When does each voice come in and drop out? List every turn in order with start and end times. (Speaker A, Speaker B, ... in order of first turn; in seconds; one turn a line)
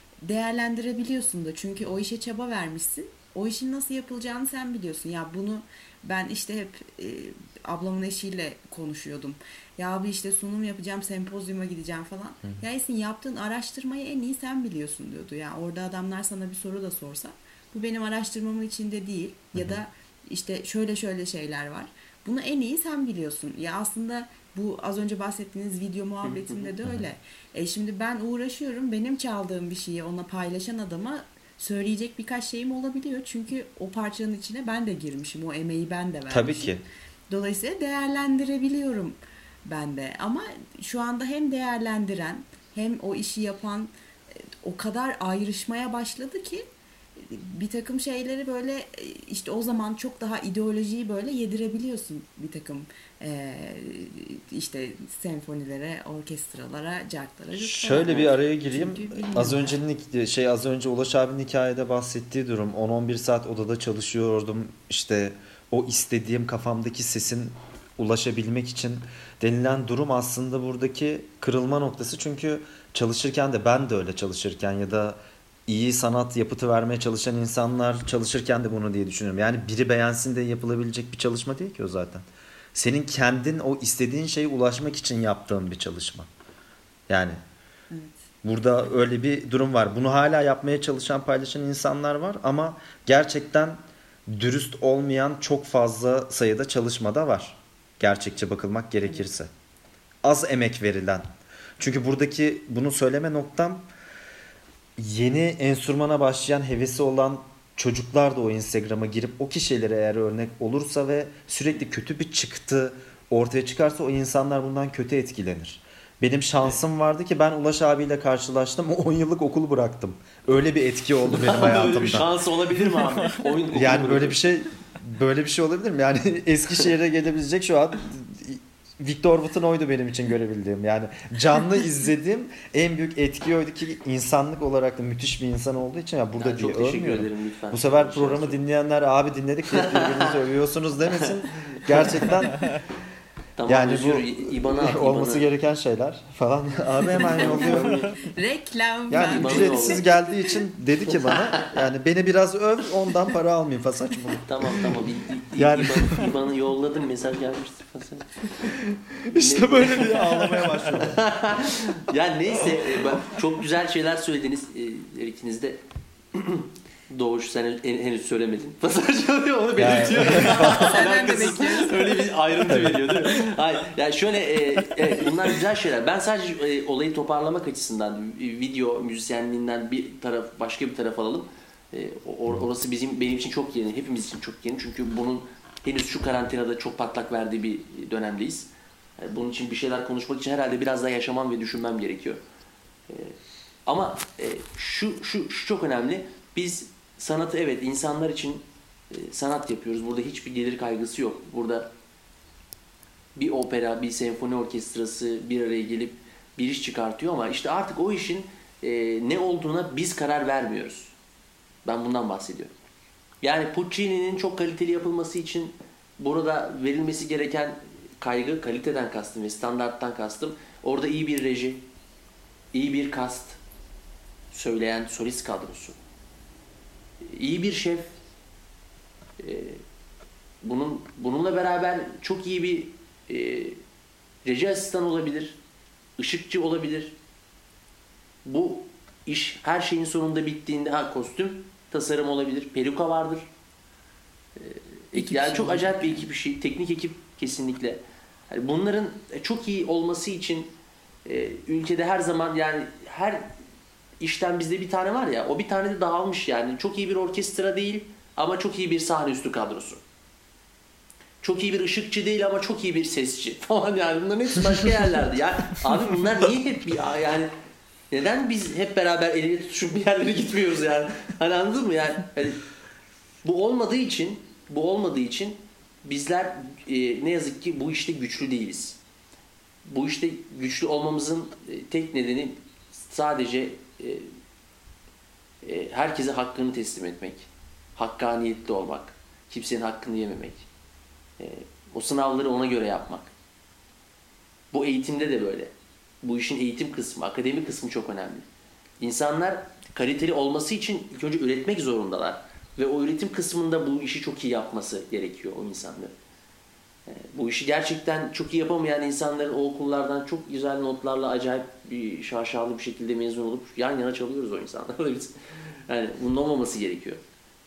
Speaker A: 0.2-46.7
Speaker B: 19.5-19.8
Speaker C: 26.2-26.7
Speaker B: 36.3-36.8
Speaker A: 47.2-59.8
Speaker B: 57.6-86.3
Speaker B: 87.1-87.4
Speaker A: 87.9-88.2
Speaker B: 88.4-99.5
Speaker B: 100.2-101.3
Speaker B: 101.8-103.9
Speaker B: 105.0-122.3
Speaker C: 121.3-124.5
Speaker B: 123.7-142.8
Speaker C: 136.4-138.6
Speaker C: 139.7-140.3
Speaker C: 141.2-142.3
Speaker C: 143.6-145.5
Speaker B: 143.7-148.1
Speaker C: 147.2-148.2
Speaker A: 147.2-150.3
Speaker B: 149.1-156.3
Speaker C: 149.1-150.1
Speaker C: 151.1-151.9
Speaker C: 154.4-158.4
Speaker B: 158.7-161.2
Speaker C: 159.3-165.8
Speaker C: 166.3-192.4
Speaker B: 169.8-171.0
Speaker A: 170.3-172.2
Speaker B: 172.7-173.5
Speaker C: 193.1-201.9
Speaker C: 203.3-211.1
Speaker C: 211.8-212.7
Speaker C: 213.4-221.9
Speaker C: 222.7-223.6
Speaker C: 224.5-226.0
Speaker C: 227.2-228.1
Speaker C: 229.4-229.8
Speaker C: 230.6-233.8
Speaker C: 234.4-235.6
Speaker C: 236.2-237.2
Speaker C: 238.4-243.4
Speaker C: 244.6-250.7
Speaker A: 245.2-246.3
Speaker C: 251.2-253.5
Speaker C: 254.2-260.0
Speaker C: 261.4-267.5
Speaker C: 268.1-272.6
Speaker C: 273.4-279.0
Speaker C: 279.9-284.3
Speaker C: 285.6-290.7
Speaker C: 291.4-293.3
Speaker C: 294.7-298.5
Speaker C: 299.0-306.1
Speaker C: 307.1-317.2